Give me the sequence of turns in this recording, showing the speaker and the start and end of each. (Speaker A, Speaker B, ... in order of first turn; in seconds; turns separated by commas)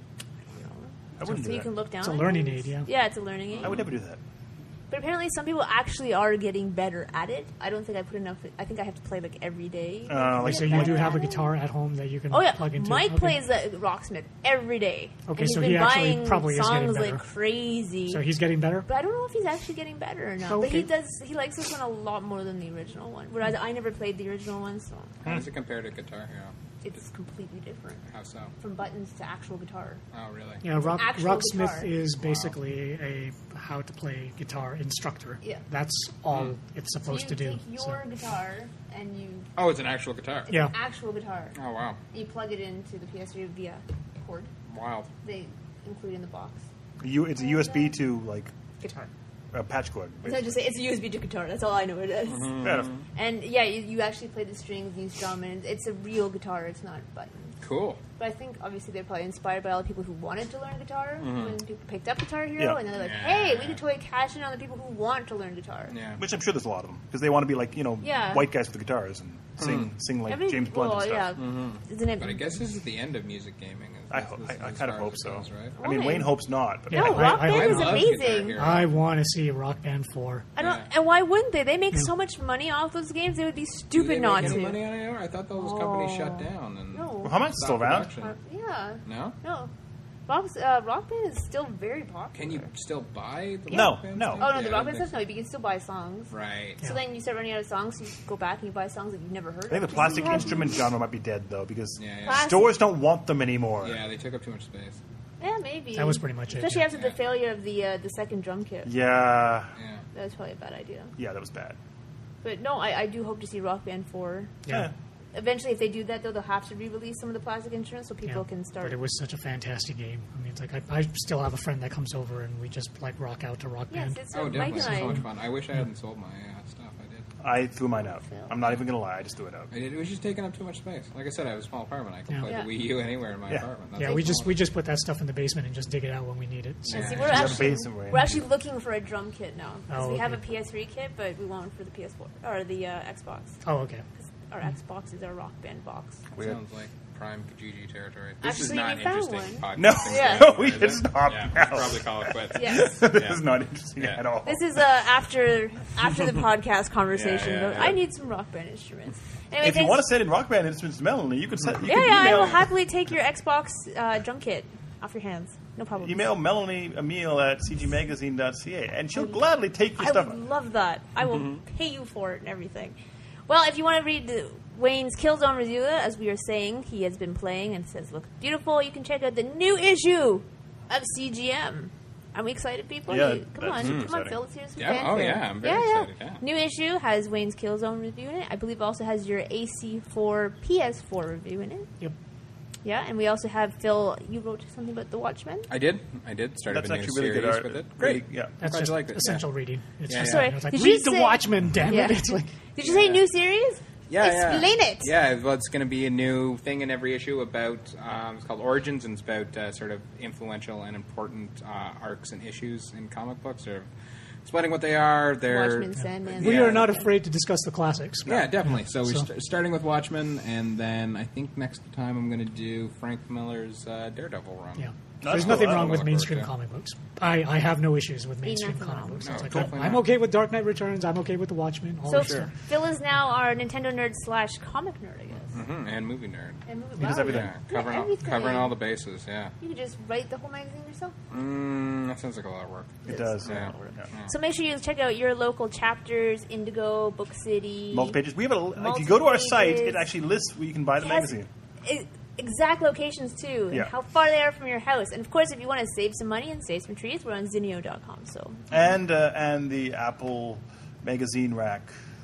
Speaker A: 0.5-3.8, Speaker B: 1.2-1.7, Speaker C: 2.0-2.9, Speaker D: 3.5-3.9, Speaker B: 3.6-4.2, Speaker A: 4.9-11.5, Speaker B: 10.1-11.2, Speaker C: 10.4-13.4, Speaker A: 12.3-18.2, Speaker C: 15.3-17.2, Speaker C: 18.1-18.9, Speaker A: 18.9-25.2, Speaker C: 20.5-20.9, Speaker D: 25.2-26.5, Speaker A: 26.8-28.0, Speaker D: 28.1-28.5, Speaker A: 28.6-30.0, Speaker D: 30.1-30.6, Speaker C: 30.6-38.0, Speaker A: 30.8-31.9, Speaker D: 32.2-32.6, Speaker D: 36.3-36.6, Speaker A: 37.0-39.5, Speaker D: 39.6-40.5, Speaker A: 40.5-41.5, Speaker C: 40.5-40.7, Speaker D: 41.5-42.0, Speaker A: 42.1-44.5, Speaker D: 44.7-45.1, Speaker A: 45.2-46.6, Speaker B: 47.0-48.5, Speaker A: 47.4-47.9, Speaker A: 48.8-49.1, Speaker B: 49.5-50.5, Speaker A: 50.2-57.5, Speaker D: 52.2-53.1, Speaker B: 52.6-52.9, Speaker D: 57.6-58.0, Speaker A: 58.2-66.0, Speaker D: 61.2-61.6, Speaker D: 62.9-63.8, Speaker D: 65.9-66.2, Speaker B: 66.2-71.3, Speaker A: 68.0-68.5, Speaker D: 69.6-69.9, Speaker A: 70.3-72.4, Speaker D: 71.4-75.8, Speaker B: 74.1-77.4, Speaker A: 75.8-78.6, Speaker C: 76.9-80.5, Speaker D: 77.3-79.0, Speaker A: 80.6-84.9, Speaker D: 80.6-80.9, Speaker D: 83.9-88.4, Speaker A: 85.5-87.4, Speaker B: 87.2-88.1, Speaker A: 88.2-89.7, Speaker D: 89.0-89.4, Speaker A: 90.3-92.7, Speaker D: 92.3-95.1, Speaker A: 93.7-100.7, Speaker B: 93.7-94.5, Speaker D: 96.3-96.8, Speaker B: 99.7-104.0, Speaker D: 102.0-102.5, Speaker A: 102.2-102.8, Speaker D: 103.8-105.0, Speaker A: 105.4-108.9, Speaker C: 106.0-106.9, Speaker B: 108.8-109.7, Speaker D: 109.8-110.0, Speaker A: 110.1-111.1, Speaker B: 111.2-111.8, Speaker A: 112.4-114.6, Speaker B: 114.7-114.9, Speaker A: 115.3-119.0, Speaker C: 118.3-125.2, Speaker A: 123.9-125.2, Speaker D: 124.3-127.3, Speaker B: 127.4-129.7, Speaker A: 128.0-128.5, Speaker D: 129.7-134.5, Speaker C: 134.0-137.6, Speaker A: 134.0-134.4, Speaker A: 136.9-143.6, Speaker D: 136.9-137.7, Speaker B: 137.2-138.4, Speaker C: 139.9-140.4, Speaker C: 143.6-144.1, Speaker A: 144.2-146.2, Speaker D: 146.4-153.4, Speaker A: 148.4-150.5, Speaker B: 149.8-154.8, Speaker A: 152.6-153.0, Speaker D: 154.0-154.2, Speaker A: 154.4-160.0, Speaker D: 157.1-158.0, Speaker B: 159.6-162.7, Speaker A: 161.8-166.3, Speaker B: 166.0-170.4, Speaker A: 169.1-169.5, Speaker A: 170.0-173.0, Speaker D: 171.3-171.6, Speaker A: 173.5-191.9, Speaker B: 183.1-184.4, Speaker D: 183.8-186.4, Speaker A: 192.8-195.7, Speaker D: 195.7-199.5, Speaker B: 196.7-198.5, Speaker C: 198.6-202.5, Speaker D: 200.1-200.6, Speaker A: 200.2-205.1, Speaker D: 202.8-203.2, Speaker D: 204.1-213.9, Speaker D: 214.4-216.7, Speaker A: 215.5-217.1, Speaker B: 216.4-216.9, Speaker C: 216.4-219.3, Speaker D: 218.3-226.5, Speaker C: 224.8-232.5, Speaker B: 225.2-226.1, Speaker A: 228.4-229.5, Speaker D: 229.2-230.1, Speaker B: 229.5-229.8, Speaker A: 232.1-235.6, Speaker D: 232.1-232.5, Speaker D: 235.5-239.5, Speaker A: 236.7-238.8, Speaker B: 237.0-237.5, Speaker A: 239.6-241.2, Speaker D: 241.3-244.3, Speaker A: 243.0-248.2, Speaker B: 243.1-244.1, Speaker B: 247.9-251.5, Speaker A: 248.8-250.0, Speaker A: 251.0-251.3, Speaker A: 251.8-258.6, Speaker B: 258.7-261.9